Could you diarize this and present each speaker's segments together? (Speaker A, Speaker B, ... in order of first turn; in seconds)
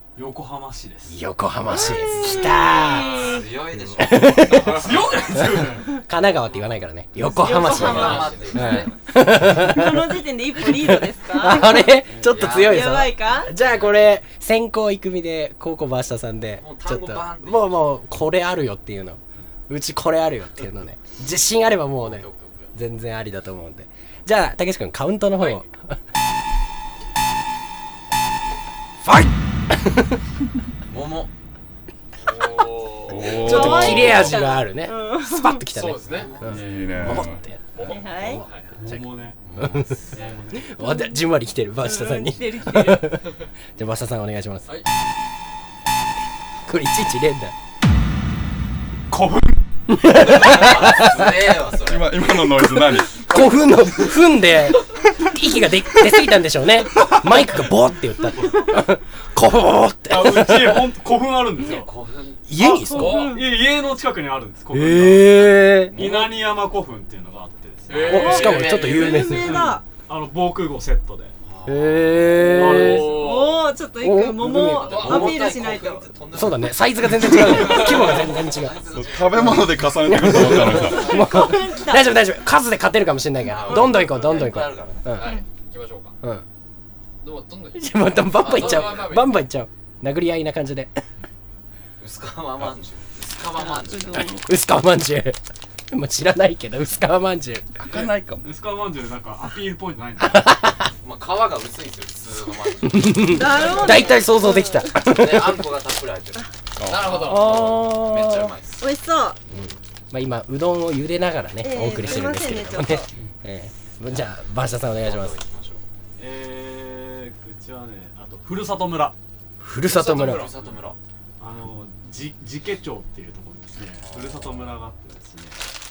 Speaker A: 0.2-1.2, 4.6-5.9, 11.8-12.6, 38.7-39.4, 40.0-40.7, 49.1-49.6, 60.1-61.9, 63.2-68.7, 69.2-71.3, 72.4-73.3, 97.9-100.6, 116.2-119.2, 121.4-125.6
Speaker B: 1.1-26.0, 29.0-30.2, 33.4-38.5, 39.6-40.0, 40.5-44.7, 46.7-47.5, 49.9-51.5, 52.5-60.9, 62.5-63.3, 64.7-66.0, 68.0-69.6, 71.7-73.2, 74.0-75.1, 76.3-78.8, 80.0-85.4, 87.8-91.0, 94.1-95.4, 95.9-97.8, 100.2-100.9, 102.9-105.7, 107.2-108.5, 109.5-115.4, 119.6-120.5
Speaker C: 1.7-5.2, 6.5-6.8, 7.4-9.0, 11.6-14.1, 16.6-17.9, 22.0-22.7, 30.9-31.3, 36.0-36.8, 39.4-40.4, 50.1-52.3, 61.6-62.5, 65.9-66.3, 71.4-72.4, 74.9-81.3, 83.4-85.2, 88.4-89.2, 92.0-94.4, 101.0-104.3, 104.9-108.9, 114.9-115.8, 119.9-121.0, 123.9-124.8
Speaker D: 1.8-3.5, 7.2-11.9, 12.5-13.5, 33.3-35.7, 37.8-38.5, 40.8-41.3, 41.8-43.1, 62.6-63.5, 68.1-69.8, 73.1-76.1, 80.6-82.2, 93.6-94.5, 103.2-104.9, 108.8-109.4, 111.6-113.1
Speaker E: 4.8-5.5, 7.5-8.9, 25.4-25.6, 32.2-33.9, 35.7-38.8, 40.1-40.4, 43.0-43.5, 62.7-63.4, 67.9-69.3, 72.6-73.7, 74.8-75.5, 77.3-78.3, 85.2-86.2, 87.2-89.5, 106.8-107.7
Speaker F: 33.1-34.4, 36.4-37.4, 51.7-53.3, 78.9-81.2, 97.8-98.5, 106.8-107.3